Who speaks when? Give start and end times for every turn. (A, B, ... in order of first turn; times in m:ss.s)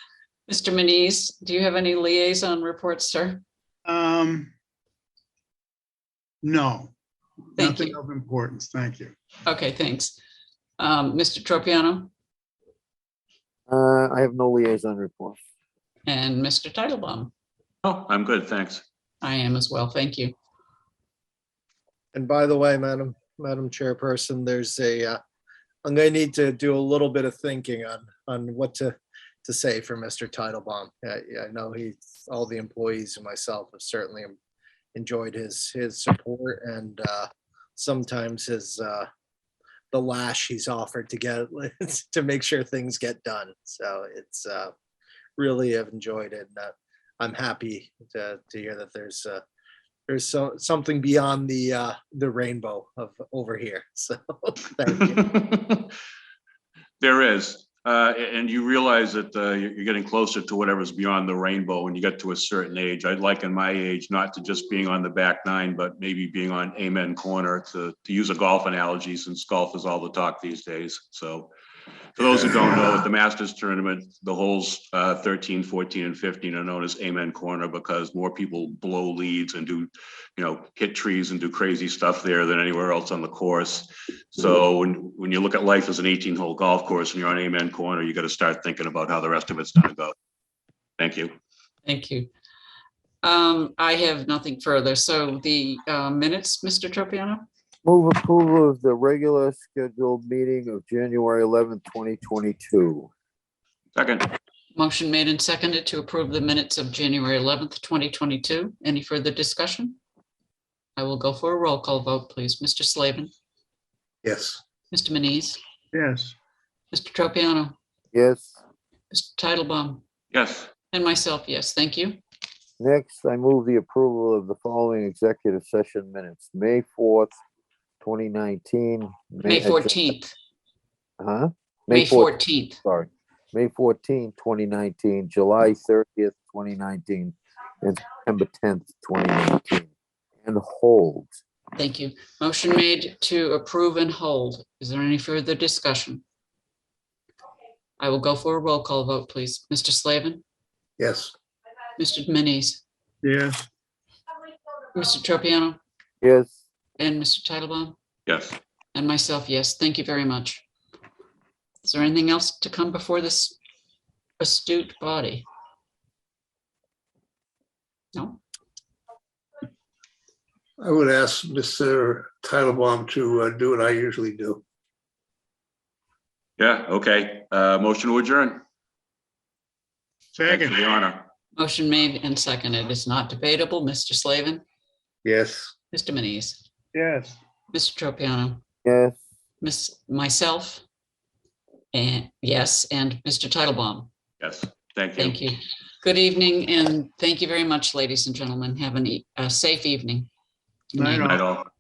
0:00.5-0:03.4 A
0:03.9-0:04.5 B
0:06.4-0:06.9 B
0:07.6-0:09.2 B
0:07.6-0:08.0 A
0:09.5-0:10.2 A
0:10.8-0:12.1 A
0:13.7-0:15.4 C
0:16.1-0:17.3 A
0:17.8-0:18.8 D
0:19.2-0:20.4 A
0:22.1-0:25.2 E
0:25.8-0:34.4 E
0:35.0-0:39.1 E
0:39.9-0:44.7 E
0:45.4-0:49.4 E
0:50.1-0:55.2 E
0:55.0-0:55.9 D
0:57.0-1:11.5 D
1:12.2-1:30.1 D
1:31.0-1:31.3 D
1:31.8-1:32.3 A
1:33.2-1:37.4 A
1:37.8-1:43.1 C
1:44.0-1:44.3 D
1:44.8-1:50.0 A
1:51.0-1:53.3 A
1:54.2-1:54.6 F
1:54.9-1:55.6 A
1:55.9-1:56.4 B
1:56.9-1:57.8 A
1:58.1-1:58.6 C
1:59.1-2:00.0 A
2:00.3-2:00.7 D
2:00.9-2:02.2 A
2:02.8-2:07.3 C
2:08.0-2:10.0 C
2:09.4-2:10.4 A
2:11.2-2:19.9 C
2:11.9-2:12.8 A
2:20.4-2:21.3 C
2:21.8-2:26.2 A
2:28.0-2:30.4 A
2:31.0-2:31.3 F
2:32.0-2:32.8 A
2:33.2-2:33.7 B
2:34.9-2:35.8 A
2:36.2-2:36.6 C
2:37.0-2:38.0 A
2:38.3-2:38.6 D
2:38.9-2:40.6 A
2:41.8-2:43.6 A
2:44.4-2:45.4 A
2:48.2-2:48.4 A
2:50.8-2:54.6 F
2:56.6-2:58.6 D
3:00.4-3:00.8 B
3:00.5-3:01.3 D
3:01.6-3:04.6 A
3:05.2-3:05.7 F
3:05.9-3:06.6 A
3:06.9-3:07.4 B
3:07.7-3:08.6 A
3:08.8-3:09.2 C
3:09.6-3:10.8 A
3:11.9-3:14.1 A
3:14.4-3:15.4 D
3:15.2-3:20.3 A
3:20.9-3:21.4 B
3:21.0-3:21.3 A
3:21.3-3:21.7 D